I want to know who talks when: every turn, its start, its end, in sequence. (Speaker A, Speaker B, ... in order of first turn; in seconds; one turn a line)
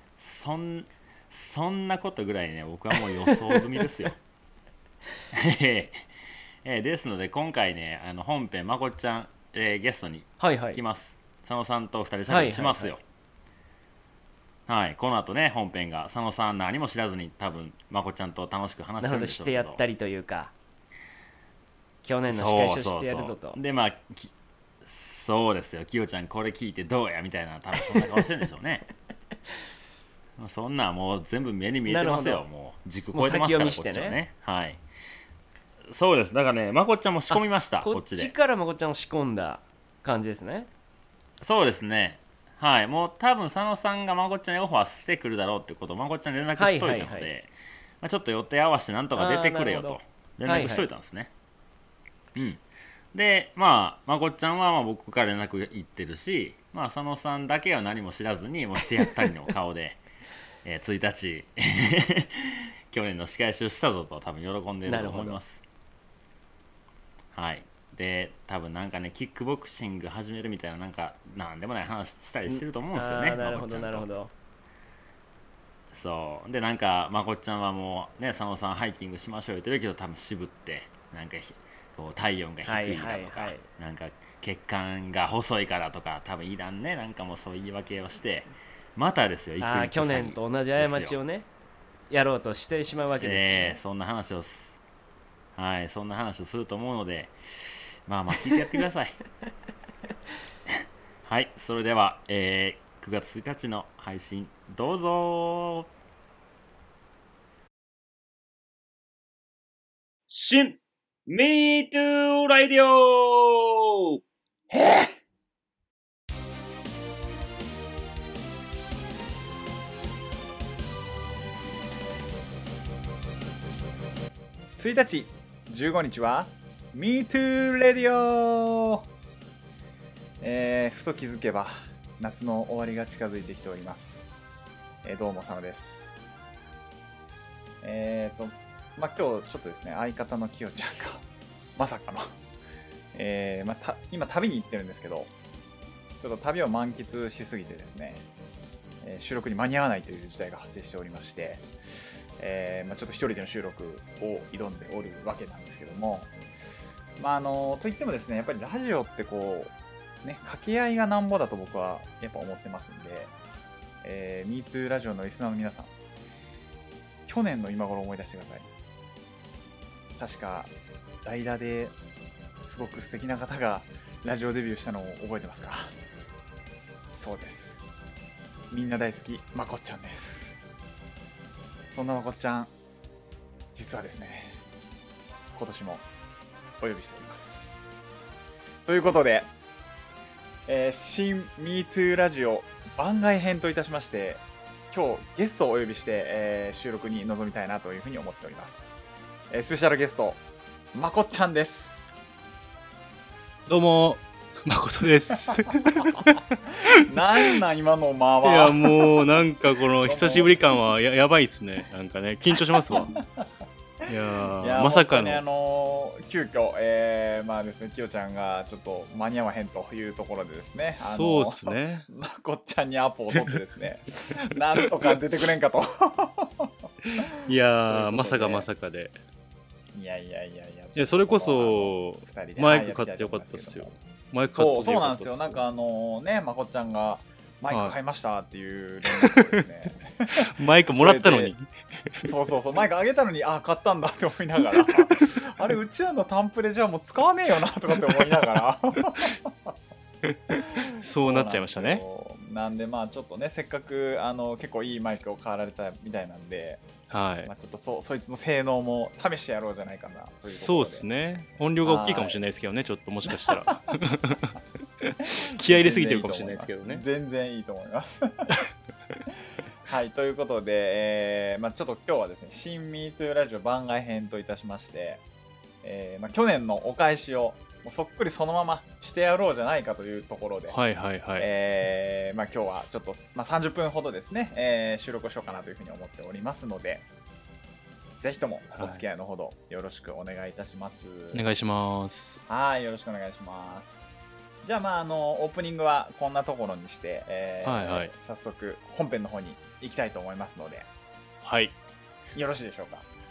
Speaker A: 0.2-4.2
Speaker A: 5.3-6.1
Speaker A: 6.6-13.0
Speaker B: 10.4-10.8
Speaker B: 12.3-12.9
Speaker A: 14.7-19.8
Speaker B: 19.0-20.5
Speaker B: 22.0-23.6
Speaker A: 22.3-24.3
Speaker A: 24.8-28.9
Speaker A: 30.4-34.8
Speaker B: 31.9-32.4
Speaker B: 33.1-34.2
Speaker A: 35.9-38.3
Speaker B: 37.3-40.7
Speaker A: 41.4-51.3
Speaker B: 46.6-47.3
Speaker B: 49.1-50.9
Speaker A: 52.4-60.0
Speaker A: 60.6-65.6
Speaker B: 64.9-65.4
Speaker A: 67.3-74.1
Speaker B: 72.5-74.3
Speaker A: 75.9-91.2
Speaker B: 82.7-83.7
Speaker B: 89.6-91.5
Speaker B: 92.1-93.8
Speaker A: 93.2-94.8
Speaker A: 95.6-99.2
Speaker A: 101.2-105.9
Speaker C: 110.3-113.9
Speaker A: 111.3-113.0
Speaker D: 114.7-115.1
Speaker D: 124.8-129.0
Speaker D: 130.4-134.2
Speaker D: 135.0-136.1
Speaker D: 137.8-141.2
Speaker D: 141.8-142.3
Speaker D: 143.1-145.3
Speaker D: 146.2-148.2
Speaker D: 149.0-156.3
Speaker D: 157.2-163.3
Speaker D: 164.0-165.9
Speaker D: 167.3-168.7
Speaker D: 170.2-170.7
Speaker D: 171.2-171.9
Speaker D: 172.6-175.9
Speaker D: 177.2-177.8
Speaker D: 178.7-180.6
Speaker D: 181.9-182.7
Speaker D: 183.8-184.6
Speaker D: 185.6-186.1
Speaker D: 186.8-187.7
Speaker D: 188.9-189.5
Speaker D: 190.7-198.8
Speaker D: 199.5-200.4
Speaker D: 200.9-202.1
Speaker E: 203.7-207.6
Speaker D: 206.9-209.4
Speaker E: 208.4-213.2
Speaker D: 210.0-210.8
Speaker D: 212.7-213.3
Speaker E: 214.1-215.4
Speaker D: 214.6-226.7
Speaker E: 221.0-222.1
Speaker E: 223.3-223.6
Speaker E: 224.2-224.9
Speaker E: 227.0-229.1
Speaker D: 227.9-228.7
Speaker D: 229.9-233.9
Speaker E: 230.9-235.6
Speaker D: 234.5-241.6
Speaker E: 237.7-238.0
Speaker E: 239.2-239.6
Speaker E: 240.3-242.3
Speaker D: 242.2-249.7
Speaker E: 244.8-245.2
Speaker E: 250.2-252.0
Speaker D: 250.6-256.9
Speaker E: 257.1-257.5
Speaker D: 257.4-261.1
Speaker E: 260.4-267.1
Speaker D: 261.8-262.4
Speaker D: 263.3-263.8
Speaker D: 265.2-268.6
Speaker D: 269.9-275.2
Speaker D: 275.8-280.8
Speaker E: 280.7-281.5
Speaker D: 281.4-287.1
Speaker D: 288.2-291.4
Speaker E: 288.7-289.0
Speaker E: 291.3-292.4
Speaker D: 292.5-293.9
Speaker D: 294.6-300.9
Speaker E: 297.6-298.1
Speaker E: 301.4-301.8
Speaker D: 302.4-303.1